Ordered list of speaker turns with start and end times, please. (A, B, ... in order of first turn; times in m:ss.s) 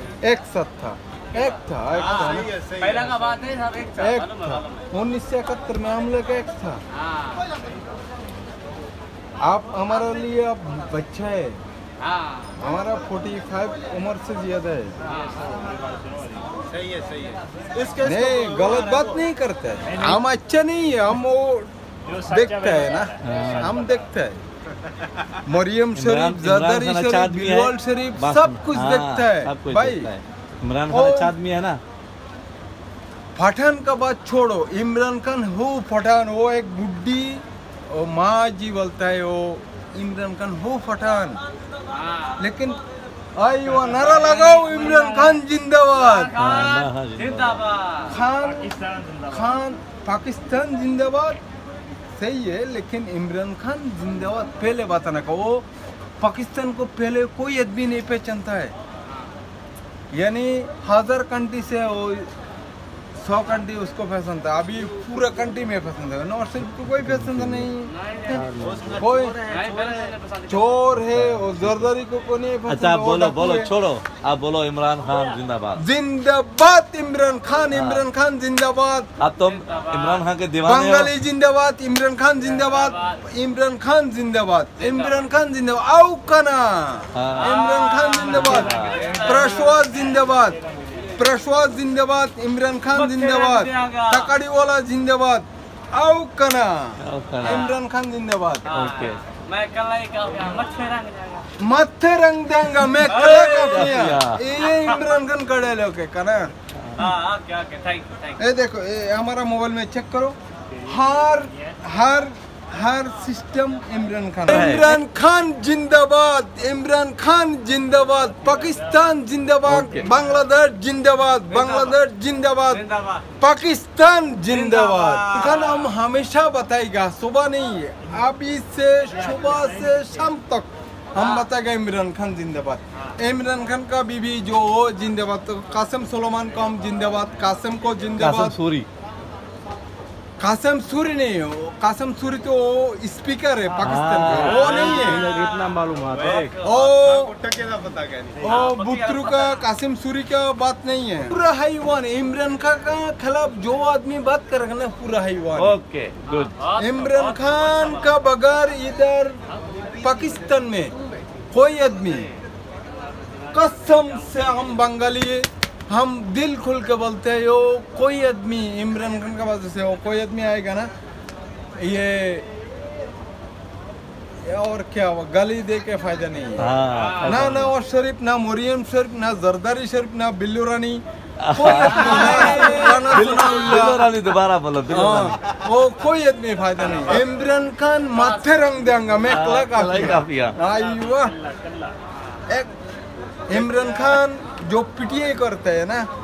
0:00.2-0:02.5 A
0:02.1-0:03.3 B
0:02.9-0:04.2 C
0:03.9-0:06.8 A
0:09.4-0:11.6 A
0:12.6-0:15.0 A
0:16.7-0:19.1 B
0:18.0-0:24.4 A
0:23.2-0:23.7 D
0:25.4-0:30.1 A
0:26.0-0:31.8 D
0:30.9-0:31.3 A
0:33.4-0:41.4 A
0:42.4-0:42.8 A
0:43.4-0:46.4 A
0:46.4-0:47.7 D
0:48.0-0:51.4 A
0:52.2-0:55.6 A
0:56.2-0:58.7 A
1:00.1-1:02.3 A
1:03.2-1:09.4 A
1:07.1-1:07.6 D
1:08.3-1:09.0 D
1:08.6-1:10.1 B
1:09.8-1:10.1 C
1:10.5-1:13.7 A
1:11.1-1:11.9 D
1:12.7-1:15.8 D
1:15.8-1:19.1 A
1:17.7-1:18.0 D
1:19.2-1:21.1 D
1:20.6-1:30.6 A
1:27.2-1:27.5 D
1:27.8-1:29.2 C
1:28.3-1:29.0 D
1:31.2-1:38.7 A
1:33.1-1:34.0 C
1:37.0-1:37.7 D
1:38.7-1:39.2 D
1:38.8-1:41.4 C
1:41.6-1:46.5 A
1:43.2-1:44.4 D
1:47.0-1:48.3 C
1:48.4-2:02.9 A
1:54.5-1:54.8 D
1:59.7-2:00.1 D
2:03.4-2:18.6 A
2:18.2-2:18.9 D
2:20.4-2:25.2 A
2:23.8-2:26.5 D
2:26.2-2:28.5 B
2:26.6-2:27.4 A
2:28.4-2:35.8 A
2:35.6-2:36.6 D
2:36.8-2:39.4 A
2:40.0-2:40.9 A
2:41.5-2:42.3 A
2:43.5-2:50.9 A
2:51.8-2:52.5 A
2:54.4-2:56.7 A
2:56.6-2:57.7 D
2:57.2-3:04.1 A
3:01.4-3:05.4 D
3:04.9-3:11.4 A
3:09.3-3:10.6 D
3:13.5-3:16.1 A